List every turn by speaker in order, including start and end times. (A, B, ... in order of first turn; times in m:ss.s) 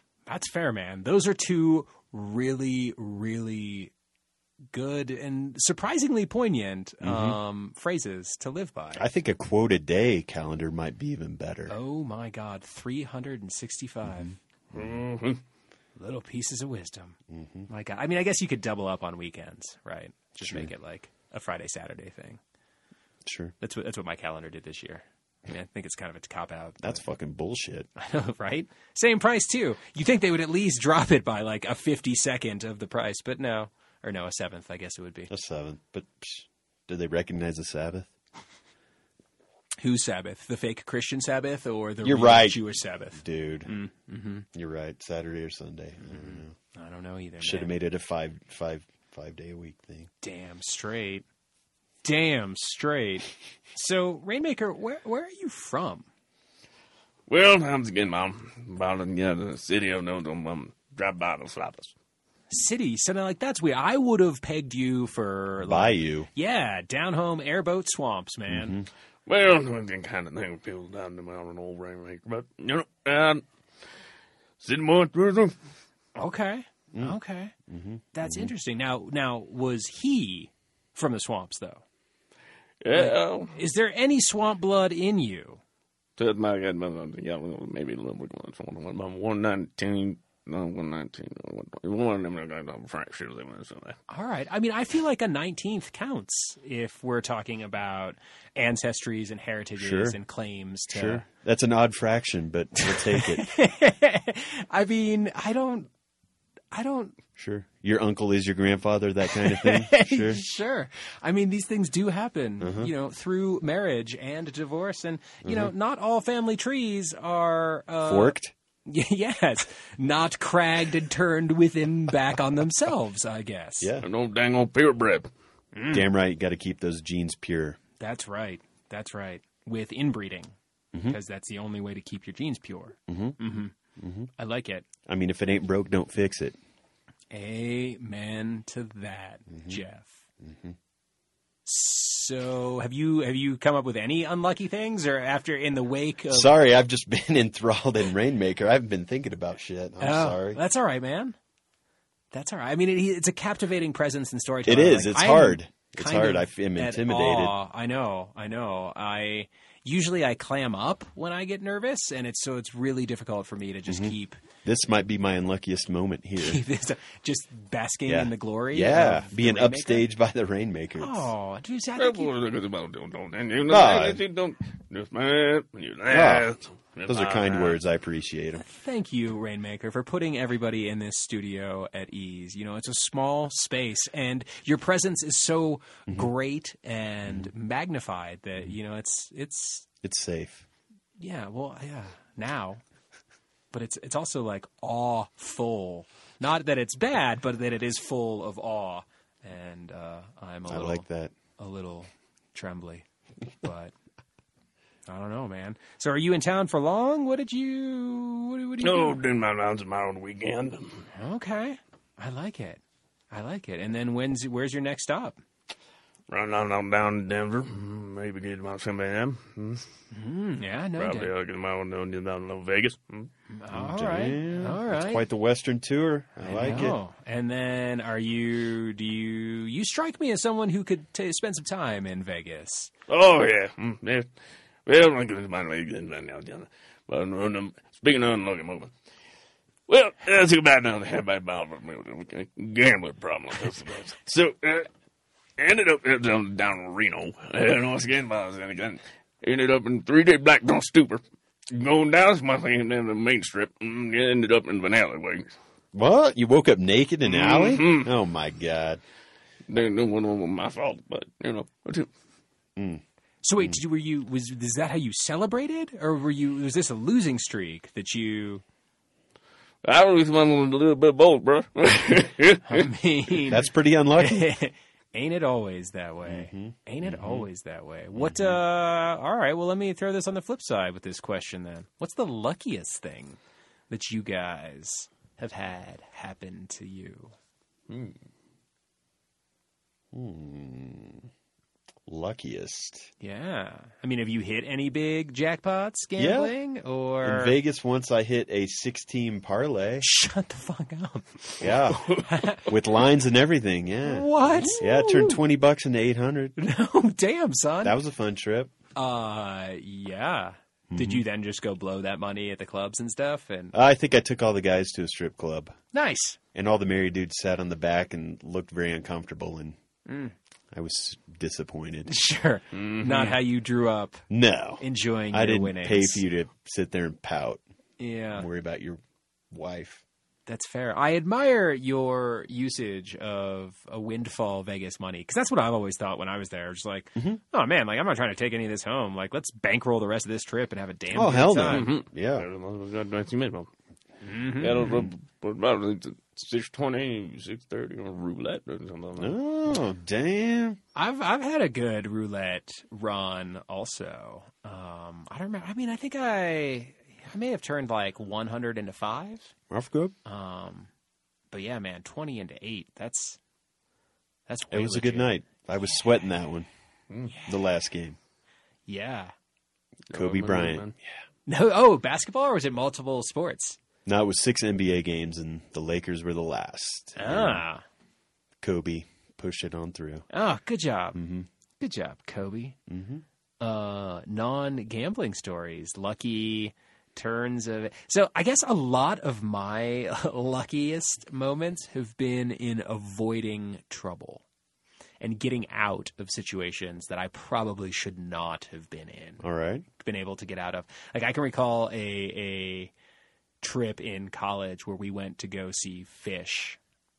0:00.3-0:03.9 A
0:04.7-0:09.0 A
0:07.0-0:07.4 B
0:08.9-0:11.7 B
0:11.7-0:14.3 A
0:14.7-0:15.4 C
0:16.0-0:22.4 A
0:17.3-0:17.7 B
0:23.2-0:23.5 B
0:23.6-0:27.0 A
0:26.8-0:27.9 B
0:28.0-0:35.3 A
0:35.3-0:38.1 B
0:39.8-0:44.4 A
0:42.0-0:42.6 B
0:43.2-0:43.7 B
0:44.5-0:46.5 B
0:46.0-0:47.7 A
0:47.4-0:50.1 B
0:50.2-0:51.2 A
0:52.0-0:56.0 A
0:57.3-1:01.9 C
1:02.5-1:08.8 A
1:05.6-1:06.3 B
1:08.5-1:08.9 B
1:09.3-1:13.4 C
1:14.6-1:15.5 C
1:16.2-1:17.5 A
1:17.7-1:18.5 B
1:18.1-1:21.8 A
1:22.8-1:23.5 C
1:22.9-1:25.6 A
1:26.2-1:34.0 C
1:34.1-1:41.2 A
1:39.8-1:40.2 B
1:40.9-1:43.5 B
1:42.8-1:45.9 A
1:46.7-1:47.2 A
1:47.4-1:50.4 B
1:49.3-1:58.4 A
1:52.6-1:52.9 B
1:55.4-1:55.7 B
1:58.0-1:58.5 B
1:58.9-2:03.9 A
2:03.8-2:04.1 B
2:04.0-2:05.3 C
2:05.7-2:06.1 A
2:05.9-2:07.8 B
2:08.0-2:13.7 A
2:13.1-2:13.4 B
2:14.0-2:14.3 B
2:14.4-2:14.8 A
2:15.1-2:16.6 B
2:17.3-2:20.2 A
2:19.5-2:19.8 B
2:20.4-2:20.8 B
2:21.6-2:26.5 A
2:26.3-2:30.6 B
2:30.0-2:31.4 A
2:32.3-2:44.4 A
2:34.6-2:37.5 B
2:43.9-2:46.6 B
2:46.4-2:50.1 A
2:48.1-2:51.3 B
2:51.0-2:52.3 A
2:52.0-2:57.8 C
2:53.7-2:54.2 B
2:56.1-2:56.5 B
2:57.1-2:58.6 B
2:58.6-3:09.9 A
3:10.0-3:10.6 B
3:11.2-3:12.8 A
3:13.7-3:21.0 A
3:20.7-3:21.3 B
3:21.6-3:23.9 A
3:25.1-3:29.2 A
3:28.8-3:31.0 C
3:31.1-3:35.4 A
3:36.3-3:39.8 C
3:40.1-3:41.3 A
3:41.0-3:43.3 C
3:43.5-3:45.2 A
3:43.7-3:47.0 B
3:46.4-3:52.9 A
3:53.1-3:54.3 C
3:54.8-3:58.9 C
3:59.9-4:04.9 C
4:05.6-4:15.5 C
4:15.9-4:19.0 B
4:17.2-4:18.1 C
4:19.7-4:22.1 C
4:22.8-4:23.0 B
4:23.4-4:28.6 A
4:29.8-4:32.9 C
4:32.6-4:43.4 A
4:33.5-4:34.5 B
4:36.2-4:37.5 B
4:38.1-4:38.6 B
4:43.9-4:47.3 A
4:47.9-4:48.2 C
4:50.1-4:51.3 B
4:52.1-4:53.1 B
4:53.2-4:57.6 A
4:56.2-4:56.5 B
4:57.2-5:00.0 B
5:00.0-5:01.5 A
5:01.6-5:06.6 B
5:01.9-5:02.2 C
5:02.2-5:02.7 A
5:04.0-5:05.4 A
5:06.6-5:08.0 A
5:07.8-5:08.7 B
5:08.9-5:13.7 A
5:10.9-5:11.2 B
5:13.7-5:15.8 B
5:15.9-5:16.4 A
5:16.5-5:19.8 B
5:20.1-5:20.3 A
5:20.7-5:22.1 B
5:22.1-5:24.2 A
5:22.7-5:23.4 C
5:24.3-5:27.6 B
5:24.8-5:26.2 A
5:28.0-5:28.5 A
5:28.3-5:29.0 B
5:29.5-5:30.0 B
5:30.5-5:41.9 A
5:41.1-5:42.4 B
5:41.7-5:43.7 C
5:44.2-5:44.9 A
5:44.6-5:49.4 C
5:44.8-5:45.1 B
5:49.2-5:50.8 B
5:50.9-5:59.5 A
5:59.7-6:00.1 B
6:00.2-6:00.9 A
6:01.5-6:03.4 A
6:04.5-6:05.3 A
6:04.7-6:06.7 B
6:07.3-6:07.6 A
6:07.5-6:08.2 B
6:08.9-6:09.3 A
6:10.1-6:10.9 C
6:10.1-6:10.9 B
6:11.5-6:13.8 A
6:14.0-6:17.6 B
6:17.2-6:17.8 A
6:18.6-6:20.2 B
6:20.3-6:21.2 A
6:21.1-6:21.5 B
6:21.8-6:22.8 A
6:22.9-6:23.2 B
6:23.6-6:34.4 A
6:35.2-6:39.4 A
6:39.4-6:39.8 B
6:40.0-6:42.9 A
6:43.6-6:46.8 A